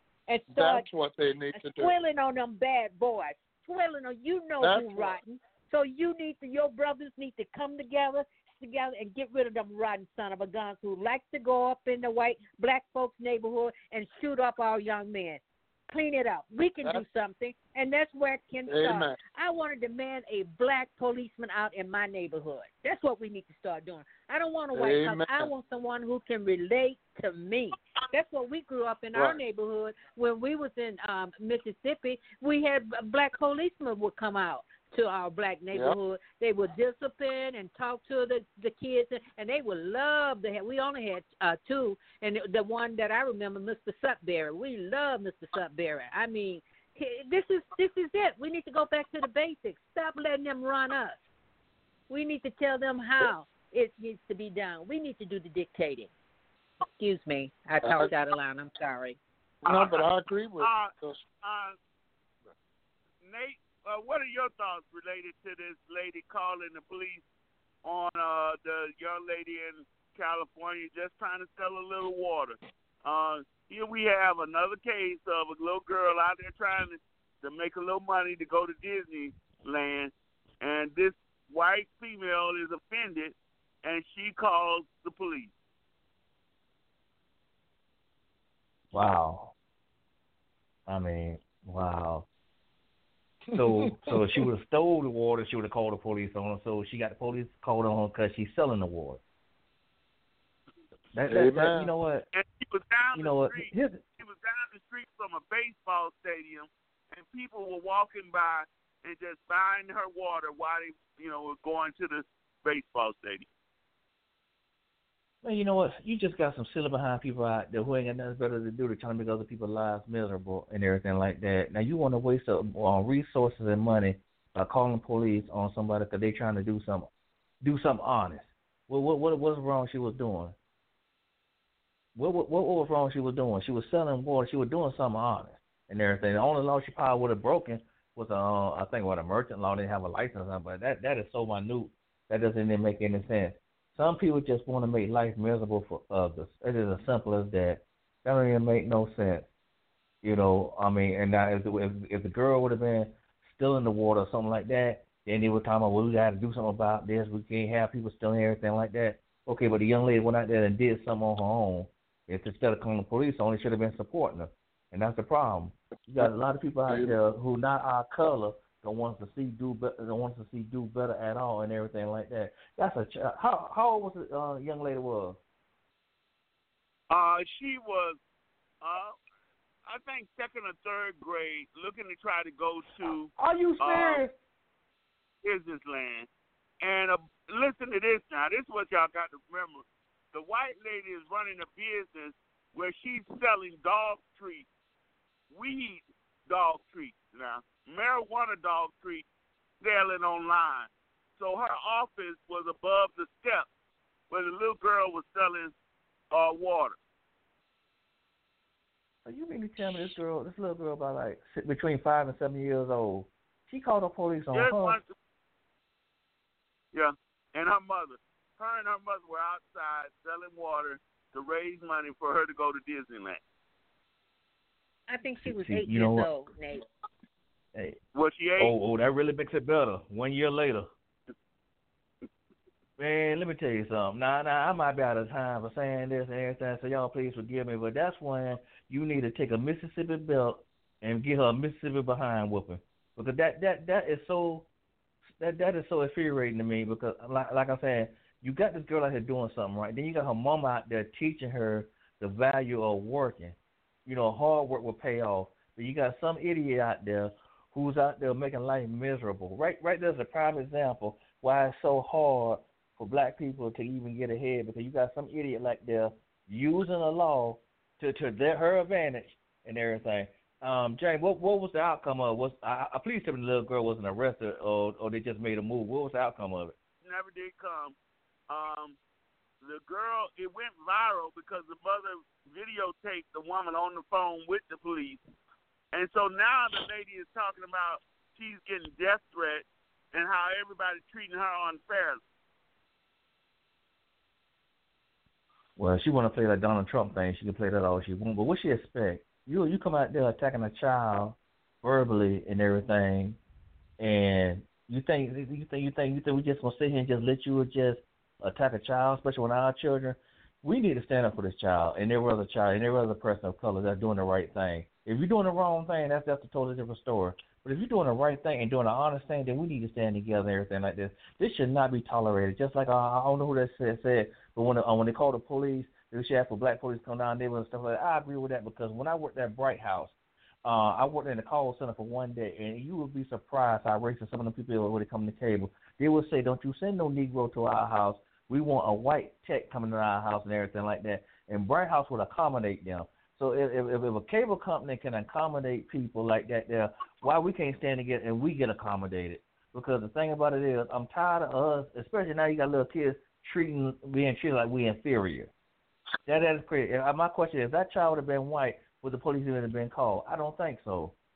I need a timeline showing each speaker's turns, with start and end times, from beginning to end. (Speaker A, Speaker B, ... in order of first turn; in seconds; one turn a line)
Speaker A: 0.3-0.9
Speaker B: 0.5-1.9
Speaker A: 1.5-51.2
Speaker B: 4.6-5.2
Speaker B: 18.6-19.2
Speaker B: 24.7-25.5
Speaker B: 29.1-29.4
Speaker B: 35.7-36.0
Speaker A: 52.1-56.1
Speaker A: 57.0-59.2
Speaker B: 57.8-58.1
Speaker C: 59.6-60.0
Speaker B: 59.6-61.2
Speaker C: 60.6-60.9
Speaker C: 61.4-61.8
Speaker C: 63.2-67.2
Speaker C: 67.8-85.5
Speaker D: 88.9-89.5
Speaker D: 90.9-92.2
Speaker B: 93.5-94.5
Speaker D: 93.5-99.2
Speaker D: 101.1-102.3
Speaker B: 101.3-101.9
Speaker C: 102.3-113.5
Speaker D: 103.1-104.0
Speaker D: 115.4-127.1
Speaker D: 127.6-130.6
Speaker D: 132.1-149.5
Speaker D: 150.2-175.4
Speaker C: 177.1-178.2
Speaker C: 178.8-179.2
Speaker C: 179.8-184.2
Speaker D: 183.3-184.3
Speaker C: 185.4-186.3
Speaker C: 186.8-194.7
Speaker C: 195.5-199.2
Speaker C: 199.8-203.7
Speaker C: 204.3-205.7
Speaker C: 206.3-207.0
Speaker D: 209.2-215.0
Speaker C: 214.5-215.1
Speaker C: 216.9-223.4
Speaker A: 225.1-226.8
Speaker D: 225.4-226.3
Speaker C: 228.1-228.8
Speaker D: 228.6-230.9
Speaker D: 233.0-244.7
Speaker D: 245.3-276.8
Speaker C: 277.0-277.9
Speaker C: 278.5-279.0
Speaker C: 279.6-285.2
Speaker C: 285.9-292.2
Speaker D: 295.8-303.4
Speaker D: 304.0-355.5
Speaker D: 356.2-361.1